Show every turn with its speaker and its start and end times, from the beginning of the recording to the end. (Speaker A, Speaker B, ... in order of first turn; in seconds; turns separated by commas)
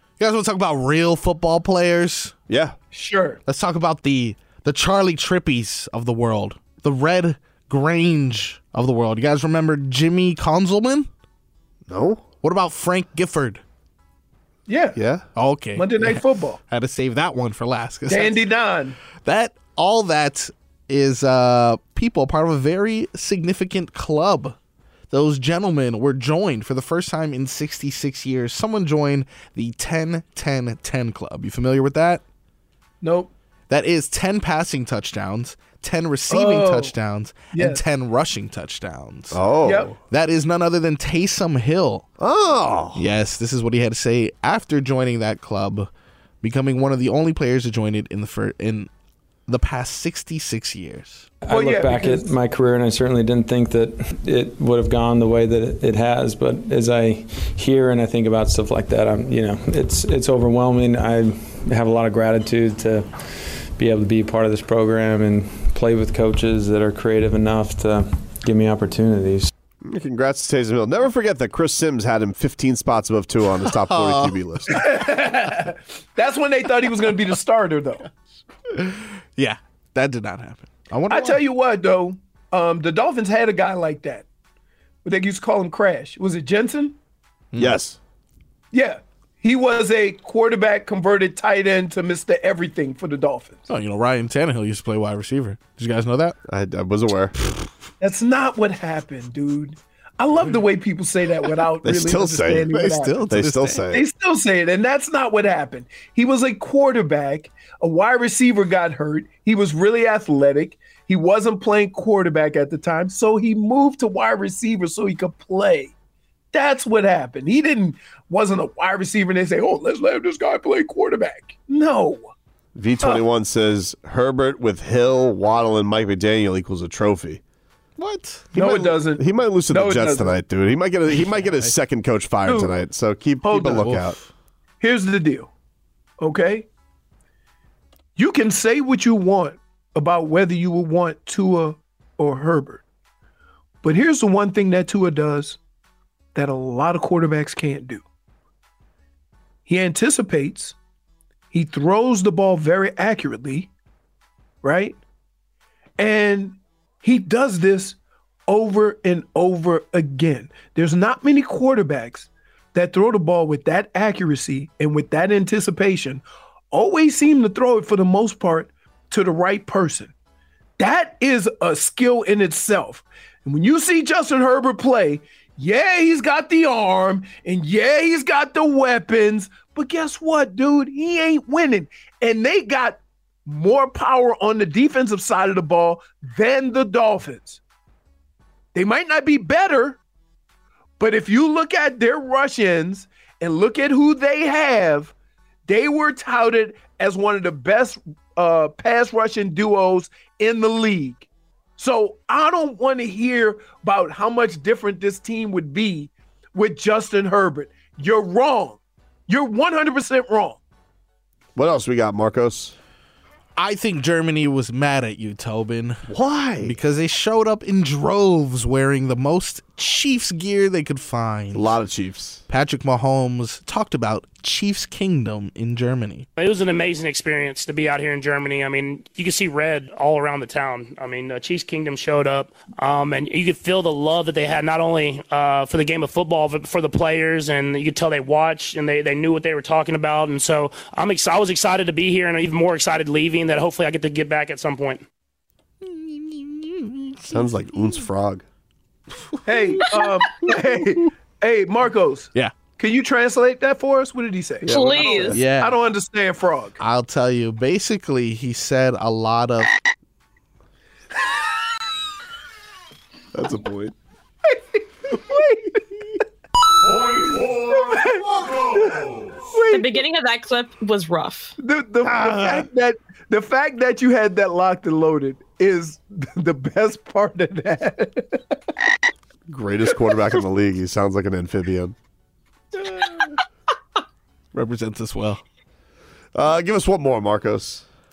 Speaker A: 0.2-2.3, Speaker B: 2.5-2.8, Speaker C: 2.9-3.4, Speaker A: 3.5-11.1, Speaker B: 11.9-12.2, Speaker A: 12.4-13.6, Speaker C: 14.7-15.0, Speaker B: 14.9-15.2, Speaker A: 15.3-18.4, Speaker C: 15.7-16.6, Speaker C: 18.1-19.0, Speaker A: 19.2-24.6, Speaker A: 25.1-32.2, Speaker C: 33.0-33.3, Speaker A: 33.7-39.4, Speaker C: 36.3-36.9, Speaker C: 37.5-37.8, Speaker B: 39.3-40.0, Speaker C: 39.6-39.9, Speaker A: 40.1-42.1, Speaker B: 42.2-43.0, Speaker A: 42.9-45.9, Speaker A: 46.4-48.9, Speaker A: 49.5-51.3, Speaker D: 51.4-63.1, Speaker C: 51.5-52.4, Speaker D: 63.8-69.5, Speaker B: 69.8-74.8, Speaker A: 73.8-74.4, Speaker C: 74.7-78.1, Speaker A: 78.7-81.4, Speaker C: 81.1-84.2, Speaker C: 85.0-86.9, Speaker A: 87.5-87.8, Speaker B: 87.6-88.0, Speaker C: 88.7-93.7, Speaker A: 93.7-96.4, Speaker B: 96.5-97.3, Speaker C: 98.0-103.2, Speaker B: 101.8-104.0, Speaker A: 102.7-103.8, Speaker C: 103.9-115.9, Speaker C: 116.5-122.3, Speaker B: 122.7-127.4, Speaker A: 128.0-128.5, Speaker B: 128.5-134.2, Speaker C: 128.5-130.3, Speaker A: 131.1-131.7, Speaker C: 132.4-132.7, Speaker C: 133.4-133.9, Speaker A: 133.5-134.3, Speaker C: 134.8-135.5, Speaker C: 136.2-136.7, Speaker C: 138.2-142.8, Speaker C: 143.8-145.6, Speaker C: 146.3-148.0, Speaker C: 149.7-150.8, Speaker C: 151.5-153.7, Speaker C: 154.6-155.0, Speaker C: 156.0-170.1, Speaker C: 170.8-187.6, Speaker C: 188.7-190.0, Speaker C: 191.0-195.1, Speaker C: 195.7-201.2, Speaker C: 201.8-210.6, Speaker B: 211.5-212.7, Speaker A: 213.6-216.0, Speaker B: 216.1-216.8, Speaker A: 216.6-221.7, Speaker B: 221.5-222.4, Speaker A: 222.5-226.2, Speaker E: 226.4-245.0, Speaker A: 245.8-247.4, Speaker B: 247.3-248.4, Speaker A: 249.3-249.8, Speaker C: 249.4-256.8, Speaker B: 254.6-255.4, Speaker F: 254.7-255.4, Speaker A: 255.3-255.8, Speaker A: 256.8-259.7, Speaker B: 263.3-263.9, Speaker C: 264.5-265.8, Speaker C: 267.5-270.1, Speaker F: 269.6-271.5, Speaker C: 271.6-278.4, Speaker B: 272.0-272.7, Speaker B: 279.5-281.9, Speaker C: 282.9-283.3, Speaker A: 284.5-285.4, Speaker B: 286.3-287.8